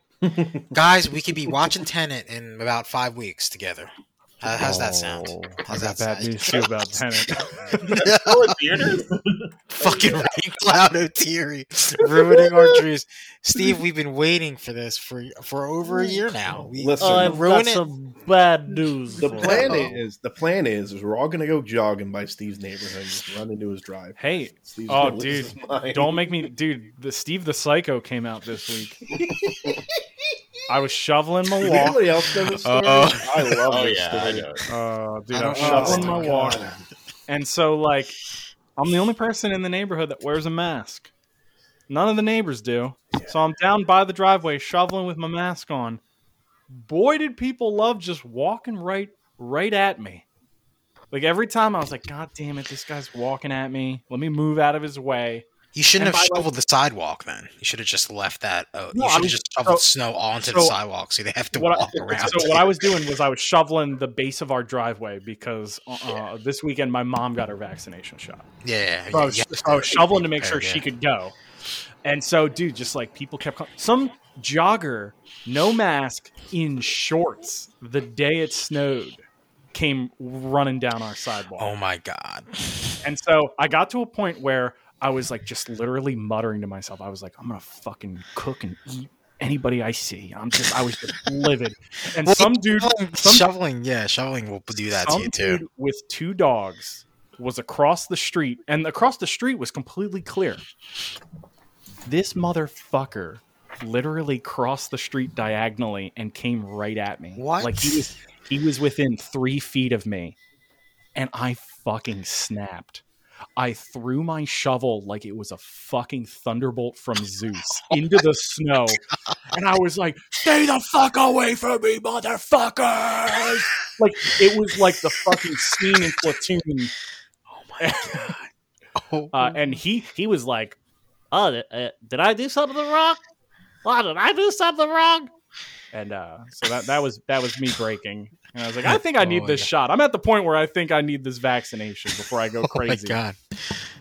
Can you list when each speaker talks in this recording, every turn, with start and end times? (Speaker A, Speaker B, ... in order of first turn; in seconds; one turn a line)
Speaker A: 0.2-0.7
Speaker B: 0.7-8.6
Speaker C: 4.5-7.4
Speaker D: 7.7-9.1
Speaker A: 9.0-9.5
Speaker B: 9.7-17.8
Speaker D: 9.8-10.3
Speaker D: 12.1-12.8
Speaker A: 16.2-17.4
Speaker E: 17.0-19.9
Speaker C: 18.7-19.9
Speaker A: 19.2-26.3
Speaker B: 19.5-19.9
Speaker C: 24.2-29.0
Speaker D: 29.1-29.8
Speaker A: 29.2-29.8
Speaker C: 30.7-32.0
Speaker A: 31.6-34.5
Speaker B: 32.6-33.3
Speaker D: 33.7-34.6
Speaker C: 34.7-36.7
Speaker B: 35.3-36.7
Speaker A: 35.5-36.8
Speaker C: 37.3-38.2
Speaker C: 38.8-41.1
Speaker C: 41.9-46.0
Speaker C: 46.7-50.2
Speaker C: 51.1-55.5
Speaker B: 55.7-62.8
Speaker C: 56.0-56.5
Speaker C: 58.9-59.9
Speaker C: 60.4-60.8
Speaker C: 61.5-68.5
Speaker B: 68.6-70.8
Speaker C: 69.1-71.3
Speaker C: 72.0-81.7
Speaker B: 81.6-83.0
Speaker C: 83.0-93.5
Speaker B: 92.2-95.6
Speaker C: 94.8-100.6
Speaker C: 102.0-110.4
Speaker B: 107.3-108.1
Speaker C: 111.1-113.0
Speaker C: 113.6-126.9
Speaker B: 127.5-129.8
Speaker C: 127.8-128.3
Speaker C: 129.3-130.8
Speaker E: 131.3-133.2
Speaker E: 133.8-135.3
Speaker C: 135.9-143.2
Speaker B: 138.8-139.7
Speaker B: 142.6-143.9